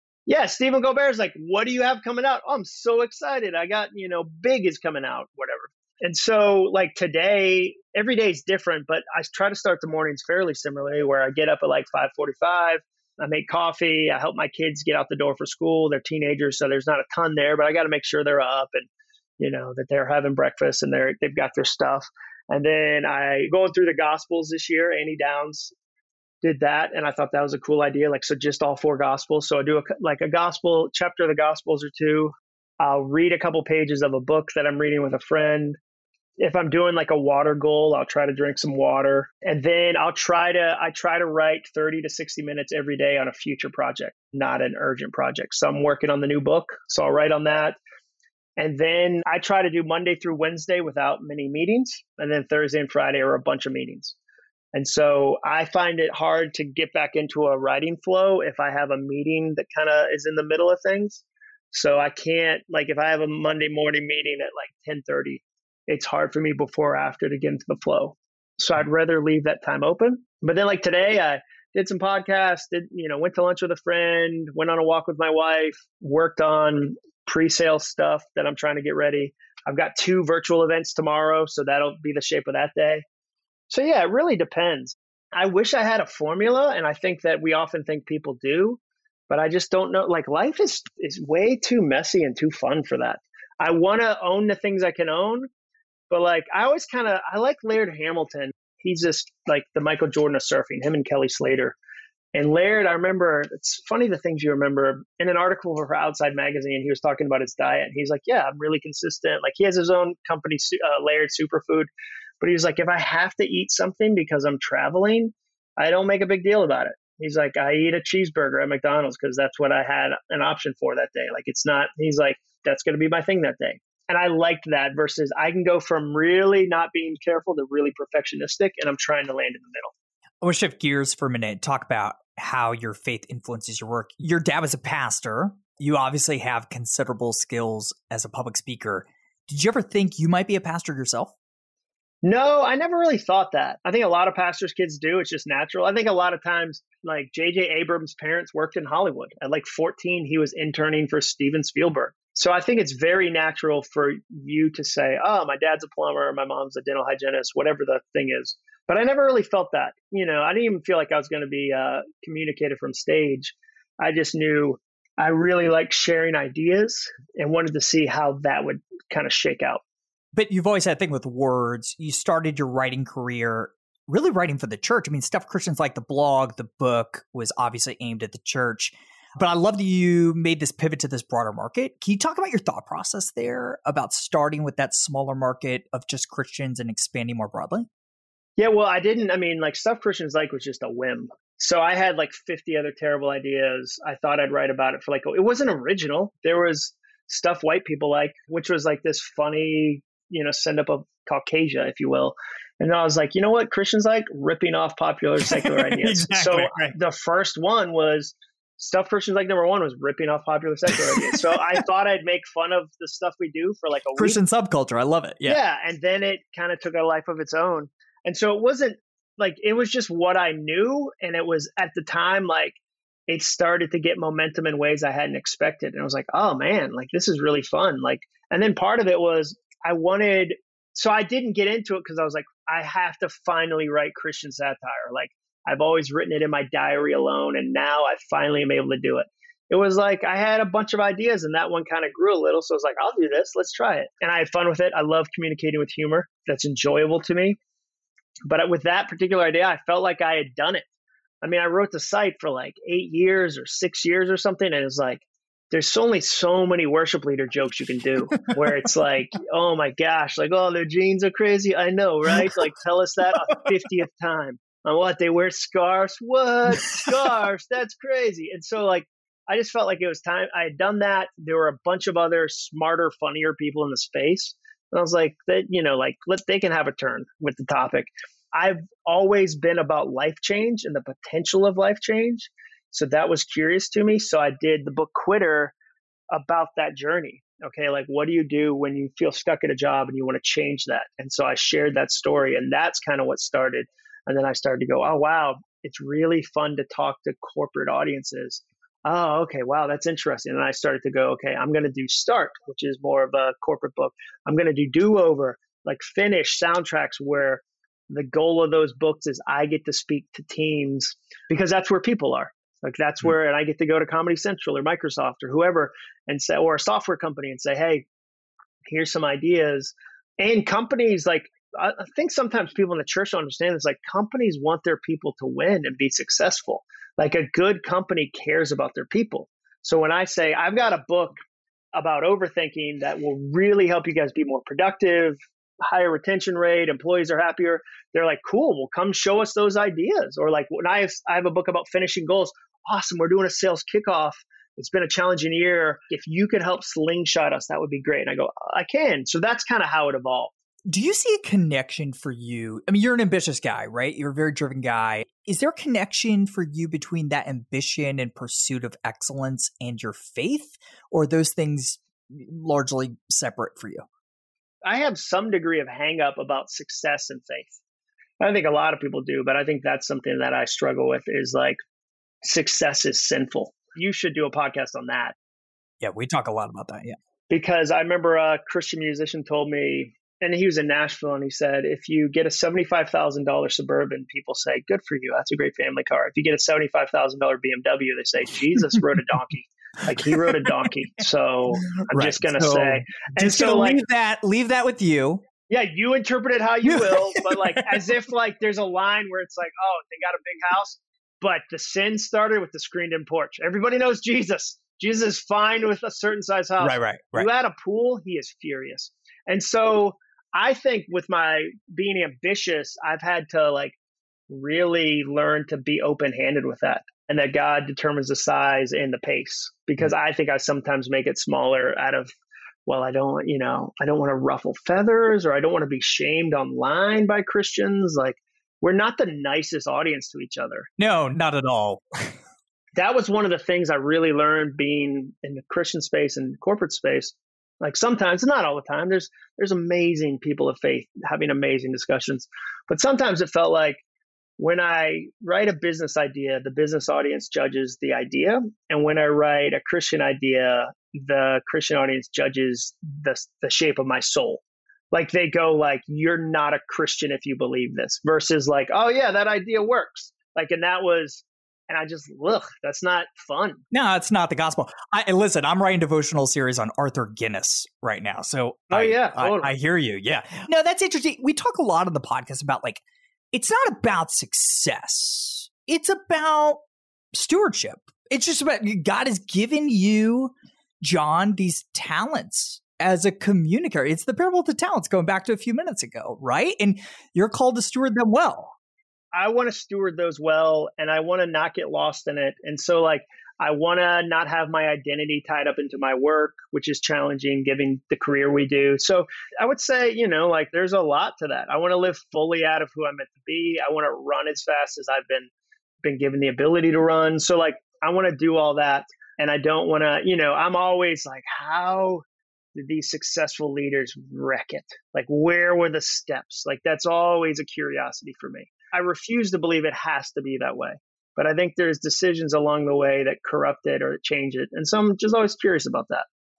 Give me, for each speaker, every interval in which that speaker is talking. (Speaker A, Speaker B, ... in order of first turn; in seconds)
Speaker A: 0.3-18.9, 19.4-25.7, 26.4-35.8, 36.4-47.8, 48.6-54.2, 54.7-83.0, 83.7-95.5, 96.1-101.8, 102.3-129.9, 142.2-169.8, 188.6-214.4, 215.4-247.6, 248.5-250.9, 251.4-285.8, 286.3-318.1, 318.9-331.4, 331.9-350.5, 364.9-367.8, 368.4-371.8, 372.4-375.4, 377.5-394.0, 395.7-414.0, 414.5-422.3, 422.9-430.9, 433.0-444.0, 444.6-463.8, 468.9-469.7, 489.3-505.5, 506.0-526.3
Speaker B: 130.4-141.3, 170.3-187.9, 205.4-206.9, 210.9-211.5, 214.2-215.6, 258.3-258.6, 262.3-262.6, 266.8-267.3, 350.9-364.1, 376.0-377.2, 388.8-389.4, 390.2-390.9, 391.8-395.4, 396.9-398.0, 406.8-407.5, 431.0-432.4, 463.9-476.8, 477.3-488.8